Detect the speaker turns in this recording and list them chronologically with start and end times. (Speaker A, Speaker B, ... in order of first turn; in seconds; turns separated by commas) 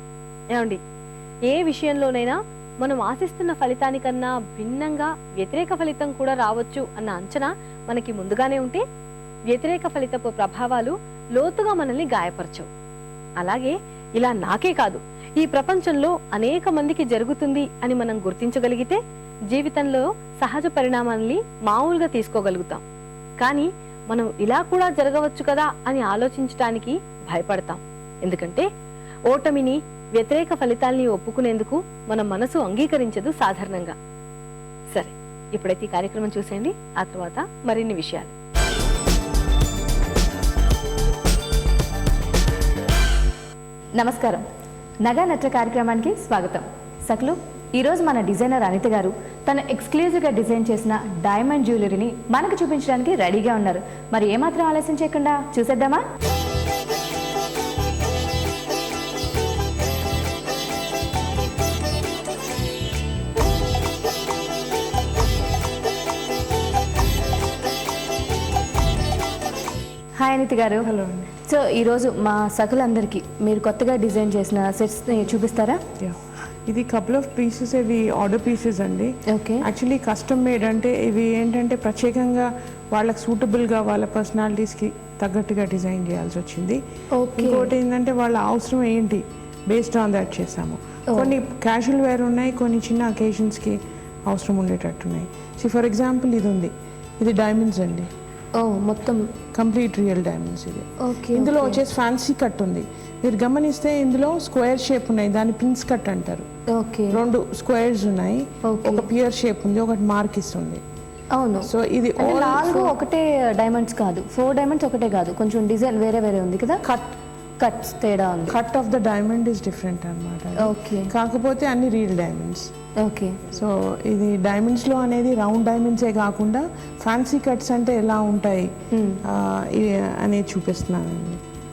Speaker A: 0.5-0.8, Speaker A: 1.5-8.8, Speaker A: 9.5-12.7, Speaker A: 13.4-22.8, Speaker A: 23.4-28.7, Speaker A: 29.3-34.0, Speaker A: 34.9-38.3, Speaker B: 44.0-44.4, Speaker B: 45.0-56.0, Speaker B: 70.2-70.9, Speaker C: 70.8-71.3, Speaker B: 71.4-75.8, Speaker C: 76.0-86.8, Speaker B: 79.3-79.7, Speaker B: 87.1-87.7, Speaker C: 87.3-98.1, Speaker B: 91.1-91.3, Speaker B: 98.6-99.2, Speaker C: 99.5-106.4, Speaker B: 101.0-101.8, Speaker B: 106.7-107.2, Speaker C: 107.1-110.8, Speaker B: 108.6-109.1, Speaker B: 111.3-116.8, Speaker C: 111.6-112.9, Speaker C: 116.8-117.1, Speaker B: 117.6-118.6, Speaker C: 118.5-122.7, Speaker B: 120.6-121.1, Speaker B: 123.0-123.4, Speaker C: 123.5-128.7, Speaker B: 128.9-129.2, Speaker C: 129.2-131.4